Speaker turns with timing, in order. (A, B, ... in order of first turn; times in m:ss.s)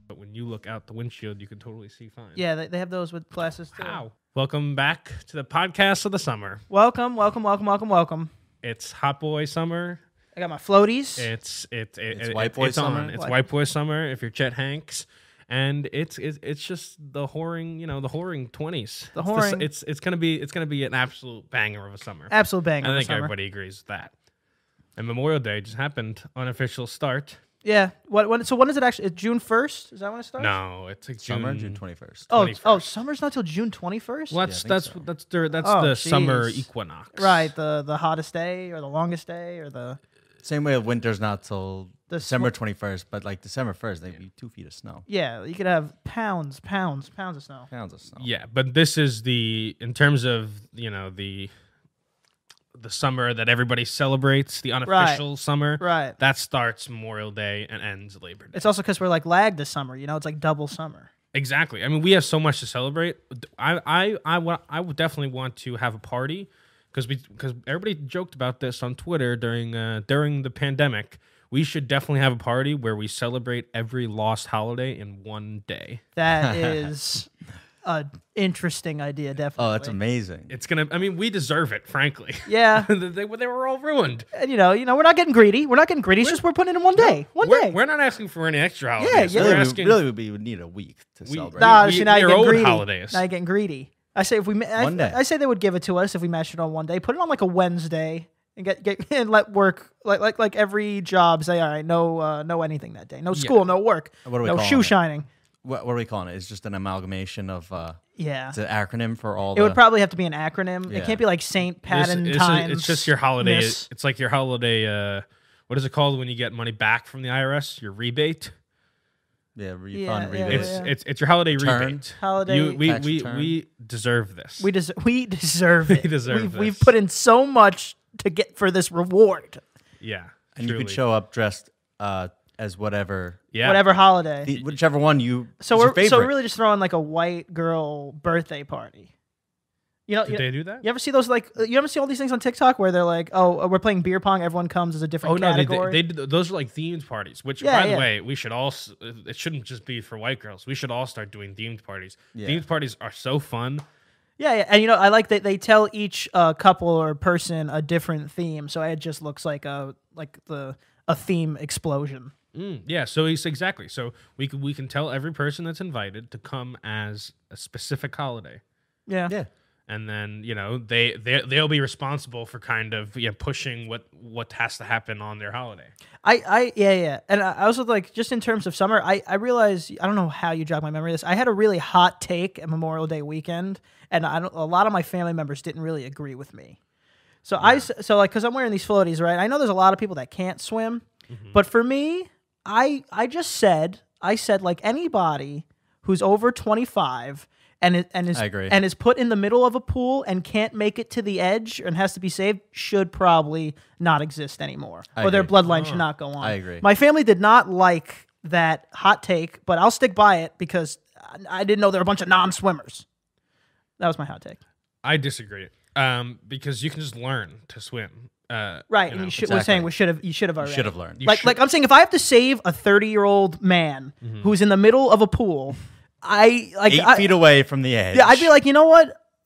0:00.1-0:02.4 A
0:02.4-0:04.0 B
0:03.8-0:06.6 A
0:06.7-0:08.3 B
0:08.6-0:10.0 A
0:10.4-0:11.3 B
0:11.2-0:24.1 A
0:12.1-0:13.1 C
0:19.1-0:19.6 B
0:22.3-0:23.3 B
0:25.0-0:27.4 A
0:27.6-0:30.5 B
0:30.4-0:32.9 A
0:31.2-0:32.3 C
0:32.3-0:34.4 B
0:34.3-0:37.5 A
0:34.4-0:35.0 C
0:35.6-0:40.0 B
0:40.4-0:45.0 C
0:42.1-0:42.5 B
0:45.1-0:47.7 B
0:47.7-0:48.3 C
0:48.2-0:51.5 A
0:52.7-0:58.7 A
0:54.8-0:55.2 B
0:55.8-0:56.2 B
0:58.5-1:01.1 B
1:01.3-1:16.0 A
1:16.2-1:17.3 B
1:16.4-1:16.8 C
1:17.8-1:20.0 B
1:19.6-1:20.5 C
1:20.5-1:24.2 A
1:22.4-1:22.9 B
1:24.3-1:27.8 B
1:27.0-1:30.0 A
1:29.0-1:29.7 B
1:29.3-1:31.9 C
1:31.2-1:33.2 A
1:31.6-1:45.3 B
1:34.8-1:35.2 C
1:43.3-1:43.6 A
1:44.2-1:45.0 C
1:45.6-1:48.0 C
1:48.2-1:48.6 B
1:48.5-1:49.8 C
1:49.5-1:53.8 B
1:50.9-1:51.2 C
1:51.9-1:58.5 A
1:59.6-2:00.8 C
1:59.9-2:00.9 B
2:00.5-2:04.7 A
2:01.5-2:02.0 C
2:02.2-2:02.8 B
2:02.8-2:03.5 C
2:04.6-2:09.6 B
2:05.8-2:06.9 A
2:10.0-2:11.0 A
2:10.6-2:13.5 C
2:13.5-2:13.8 A
2:13.6-2:14.5 B
2:14.4-2:16.3 C
2:15.6-2:19.1 B
2:20.1-2:26.0 B
2:20.3-2:20.8 A
2:25.2-2:33.8 A
2:27.6-2:28.1 B
2:32.3-2:32.6 C
2:34.4-2:42.3 B
2:42.5-2:48.6 A
2:49.1-2:49.3 B
2:49.9-2:55.9 A
2:56.2-3:06.8 B
3:07.4-3:33.0 B
3:07.6-3:07.9 A
3:11.3-3:11.6 A
3:18.3-3:18.8 C
3:25.1-3:25.5 C
3:25.6-3:26.1 A
3:26.4-3:26.8 C
3:34.0-3:34.6 B
3:35.0-3:39.4 A
3:38.9-3:47.4 B
3:39.2-3:39.9 C
3:40.6-3:41.5 C
3:41.2-3:41.5 A
3:44.2-3:44.5 A
3:46.9-3:48.5 C
3:48.1-3:49.1 B